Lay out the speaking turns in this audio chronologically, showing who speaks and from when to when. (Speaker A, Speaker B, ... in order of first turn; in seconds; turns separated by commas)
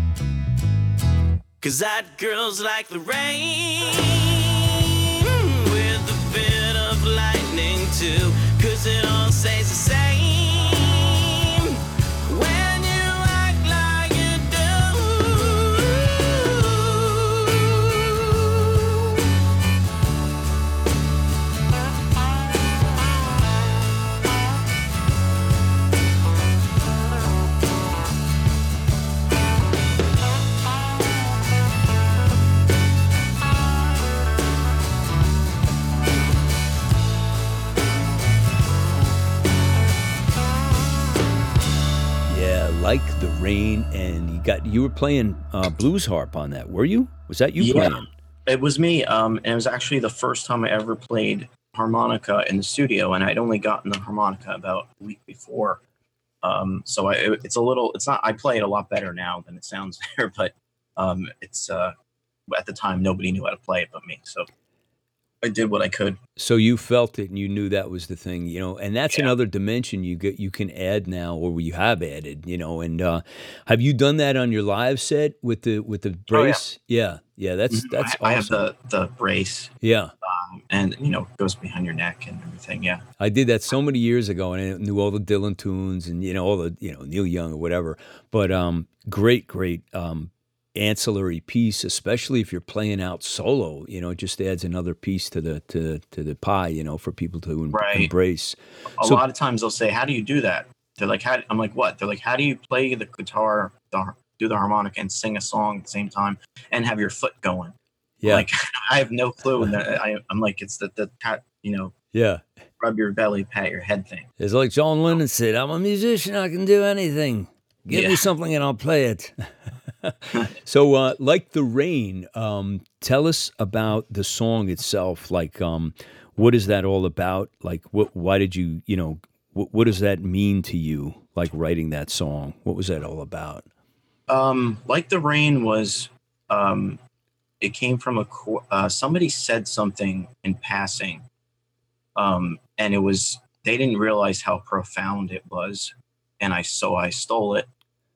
Speaker A: 1.6-18.8, Speaker B: 42.2-48.1, Speaker C: 47.6-55.8, Speaker C: 56.4-61.9, Speaker C: 62.5-64.5, Speaker C: 65.4-66.2, Speaker B: 66.4-78.6, Speaker C: 76.3-76.6, Speaker C: 77.7-79.7, Speaker B: 79.8-80.1, Speaker C: 80.2-83.0, Speaker B: 83.2-99.2, Speaker C: 97.7-98.1, Speaker C: 98.9-107.7, Speaker B: 108.2-108.5, Speaker C: 108.2-111.9, Speaker B: 112.1-112.4, Speaker C: 112.8-114.3, Speaker B: 114.4-133.6, Speaker C: 117.9-118.2, Speaker C: 134.3-137.0, Speaker C: 137.6-141.2, Speaker C: 142.2-147.7